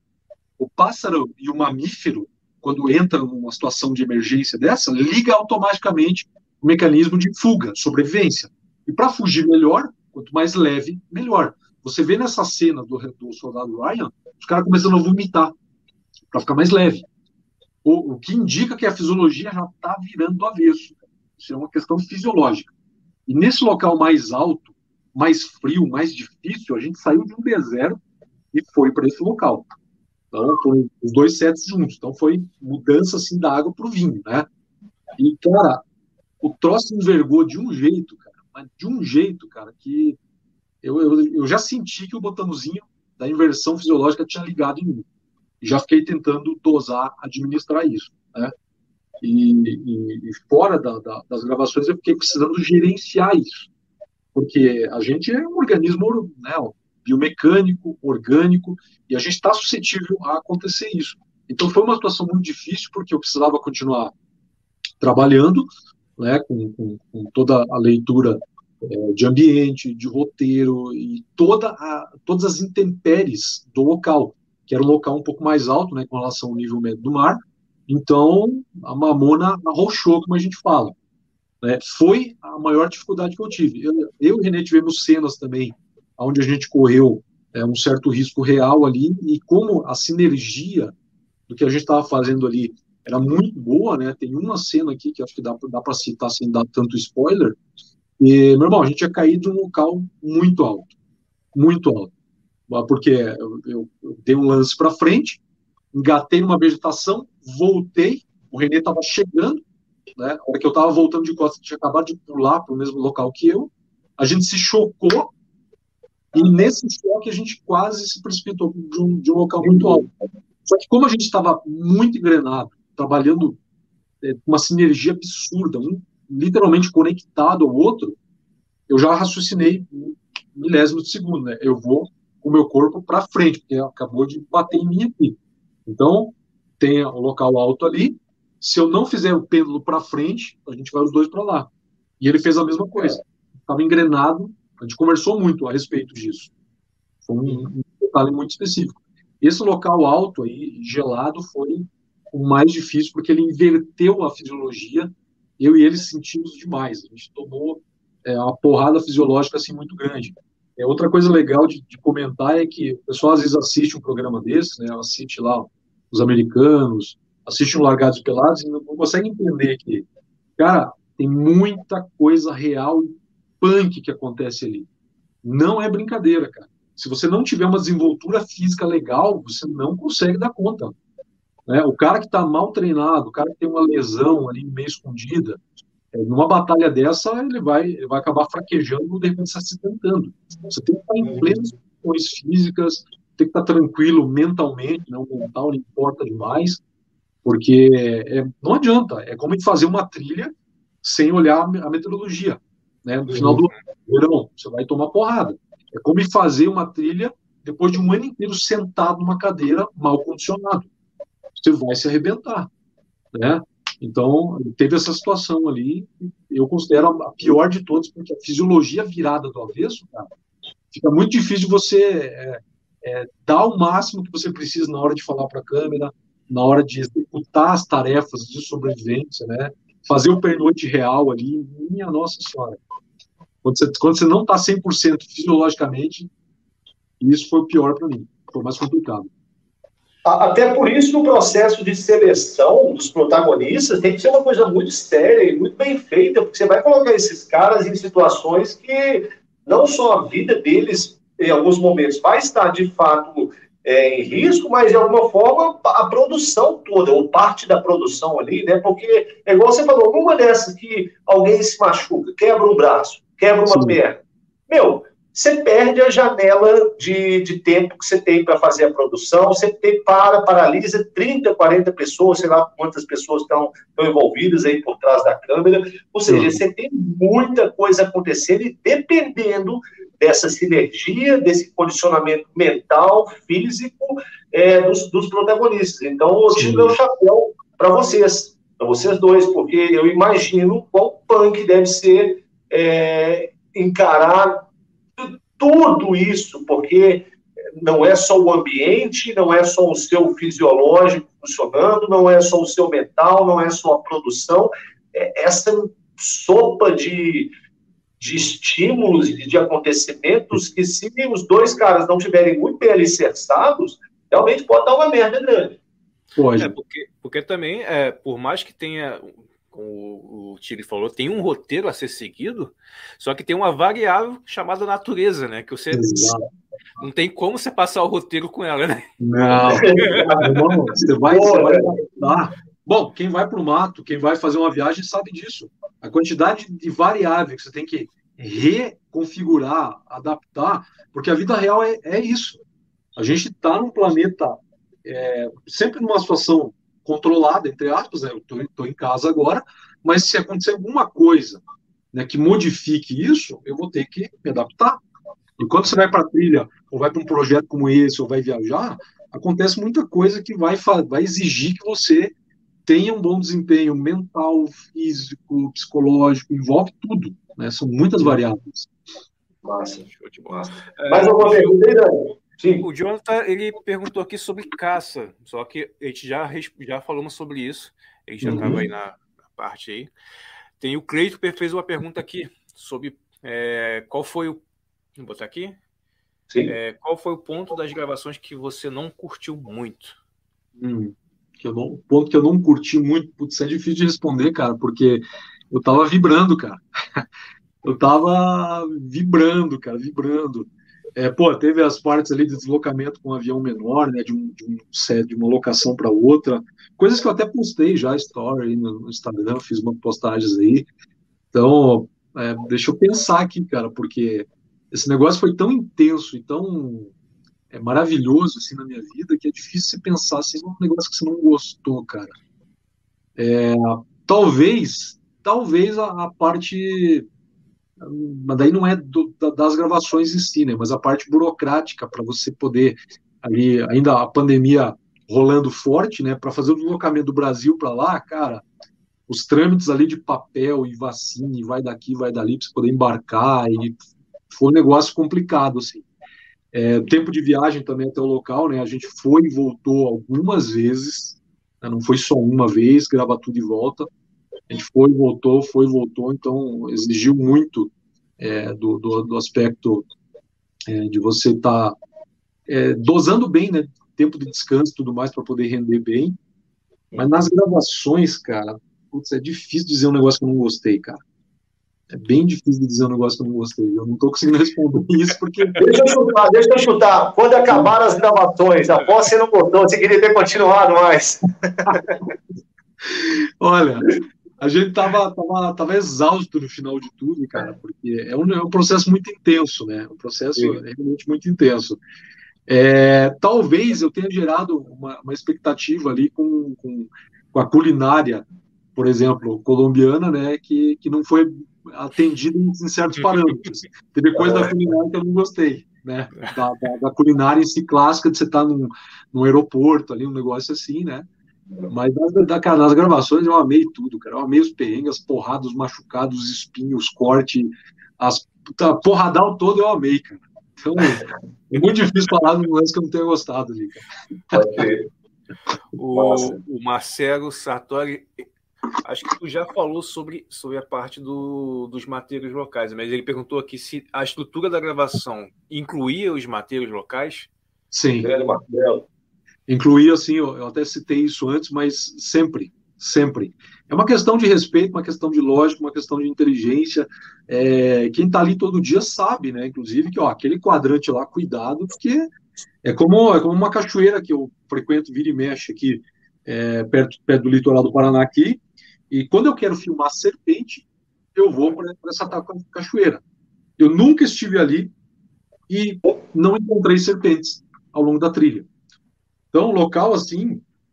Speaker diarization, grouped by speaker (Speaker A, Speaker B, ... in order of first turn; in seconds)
Speaker A: 0.6-15.5, 16.3-17.1, 17.8-22.7, 23.3-28.0, 28.5-29.7, 30.3-34.5, 35.2-35.8, 36.4-40.2, 40.8-45.0, 45.6-48.5, 49.2-53.7, 54.3-64.1, 65.0-81.0, 81.6-90.9, 91.5-97.6, 98.2-100.9, 101.5-102.1, 102.7-105.4, 105.9-109.6, 110.2-115.3, 116.3-120.1, 120.6-123.6, 124.2-128.2, 128.9-146.5, 147.2-170.1, 170.6-174.9, 175.4-180.9, 181.7-185.6, 186.1-196.8, 197.4-210.9, 211.6-212.7, 213.3-220.3, 220.9-232.8, 233.6-236.3, 237.2-239.3, 263.7-264.0, 276.3-276.6, 286.5-287.0, 316.4-316.8, 325.9-326.4, 329.2-342.6, 343.1-351.6, 352.1-355.0, 355.6-362.3, 362.9-368.9, 378.4-378.7, 390.8-397.2, 397.8-410.9, 411.5-417.1, 417.7-422.4, 423.4-427.2, 428.0-438.6, 439.3-446.1, 446.7-454.1, 454.7-460.1, 460.9-462.0, 462.7-466.4, 467.1-471.2, 472.1-475.9, 483.1-492.0, 492.7-511.3, 511.9-524.6, 537.9-538.3, 539.7-552.3, 552.8-563.2, 563.8-564.9, 565.7-568.7, 569.5-570.6
Speaker B: 119.7-120.0, 191.2-191.6, 203.3-203.6, 240.2-294.6, 295.2-307.5, 308.2-315.8, 329.7-330.6, 331.3-331.9, 369.6-372.8, 378.5-378.8, 475.8-482.2, 504.4-504.7, 524.5-525.1, 526.1-526.6, 538.2-539.0
Speaker C: 316.6-326.3, 327.0-329.1, 329.9-330.5, 370.1-371.8, 372.8-380.1, 380.8-384.6, 385.1-385.8, 386.6-390.2, 525.9-528.5, 529.0-537.5